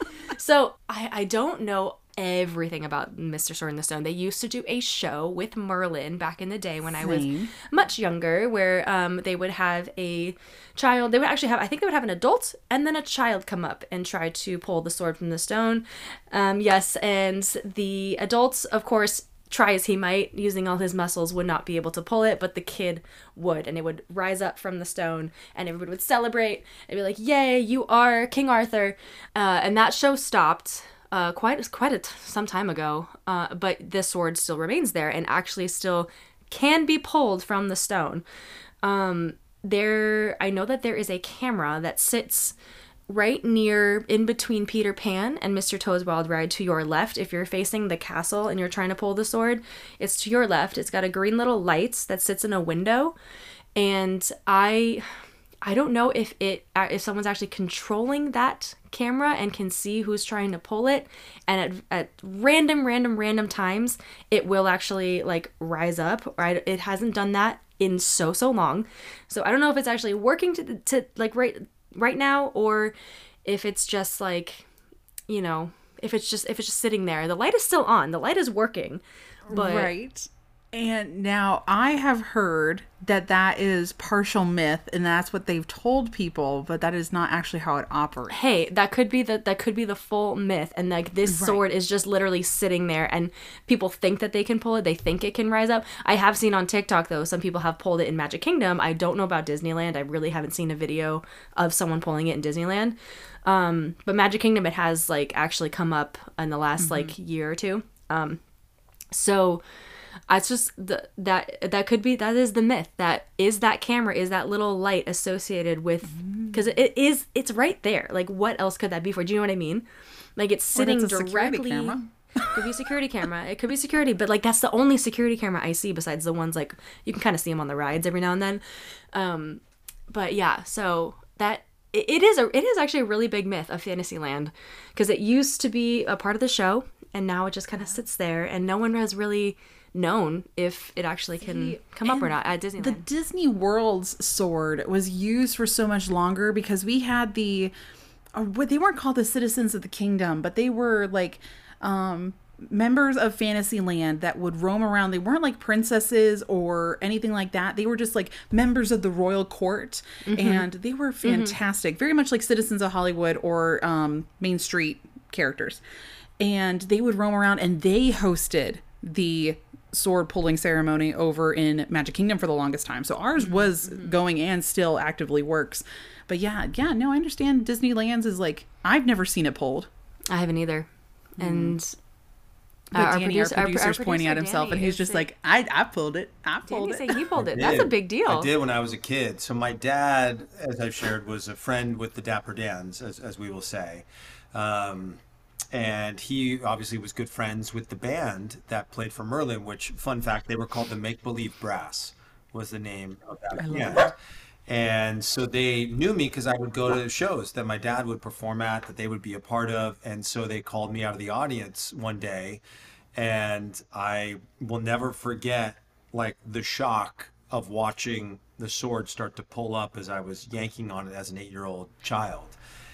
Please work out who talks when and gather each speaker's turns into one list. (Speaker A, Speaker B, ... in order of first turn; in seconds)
Speaker A: 0.3-38.2, 38.8-42.5, 43.1-53.1, 53.8-55.1, 55.6-72.9, 73.4-74.7, 75.3-79.9, 88.3-108.4, 109.1-109.6, 110.3-122.0, 122.5-128.6, 129.1-143.0, 160.2-160.7, 161.2-161.5, 173.4-174.1, 180.3-181.9, 182.9-185.2, 186.7-188.5
Speaker B: 7.0-7.5, 79.5-88.4, 91.2-91.6, 106.8-107.1, 116.1-116.7, 120.7-122.7, 141.4-147.7, 148.3-165.8, 166.4-179.9, 181.4-181.8, 182.9-187.2, 203.6-204.1
Speaker C: 187.3-195.2, 195.7-204.1, 204.7-212.6, 213.1-222.6